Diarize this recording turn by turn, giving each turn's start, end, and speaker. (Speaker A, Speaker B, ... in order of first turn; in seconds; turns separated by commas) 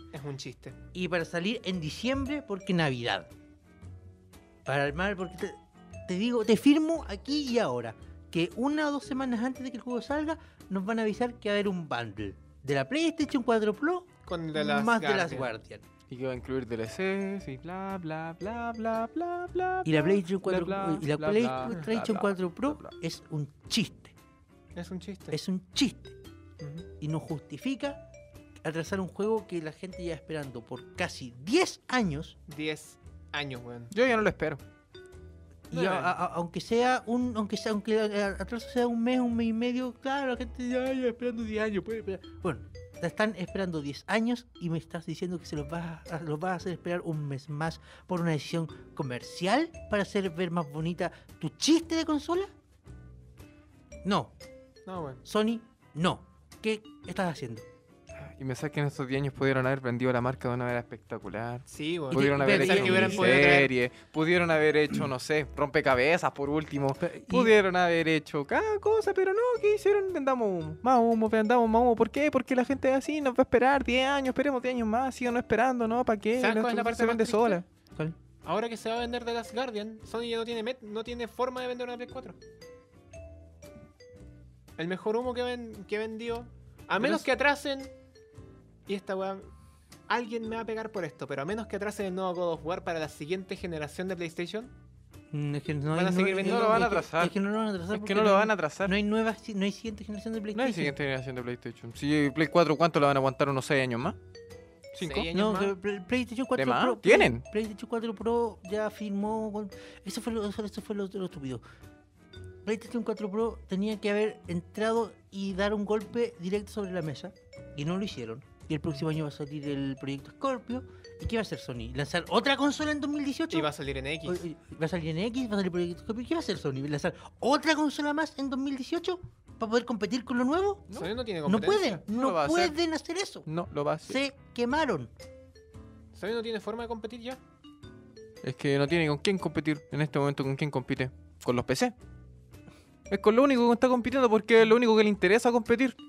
Speaker A: 0.1-0.8, Speaker B: 0.9-3.3, Speaker B: 4.7-15.8, Speaker A: 14.2-15.5, Speaker C: 16.1-22.9, Speaker B: 19.9-24.1, Speaker A: 24.8-25.4, Speaker B: 25.3-26.2, Speaker A: 26.6-26.9, Speaker B: 27.0-28.0, Speaker B: 28.6-32.4, Speaker A: 32.5-33.9, Speaker C: 33.9-34.6, Speaker B: 35.7-52.5, Speaker A: 35.7-36.2, Speaker B: 54.0-54.3, Speaker A: 54.9-55.2, Speaker B: 55.2-57.7, Speaker C: 58.1-77.7, Speaker A: 61.7-63.7, Speaker B: 62.1-63.4, Speaker B: 67.0-67.5, Speaker A: 76.4-77.6, Speaker A: 78.5-82.4, Speaker A: 84.8-87.9, Speaker A: 88.9-89.5, Speaker A: 90.1-94.7, Speaker B: 95.3-101.0, Speaker A: 95.9-96.9, Speaker C: 96.4-97.3, Speaker C: 97.9-99.0, Speaker C: 100.5-104.2, Speaker C: 104.9-105.3, Speaker A: 105.0-105.7, Speaker B: 105.3-111.6, Speaker C: 106.6-107.4, Speaker B: 112.7-123.7, Speaker A: 123.5-124.4, Speaker B: 124.2-130.9, Speaker A: 130.9-132.0, Speaker B: 131.5-133.5, Speaker C: 132.1-132.8, Speaker C: 133.5-134.2, Speaker B: 134.0-135.1, Speaker A: 136.2-137.4, Speaker C: 138.4-141.9, Speaker C: 143.1-146.0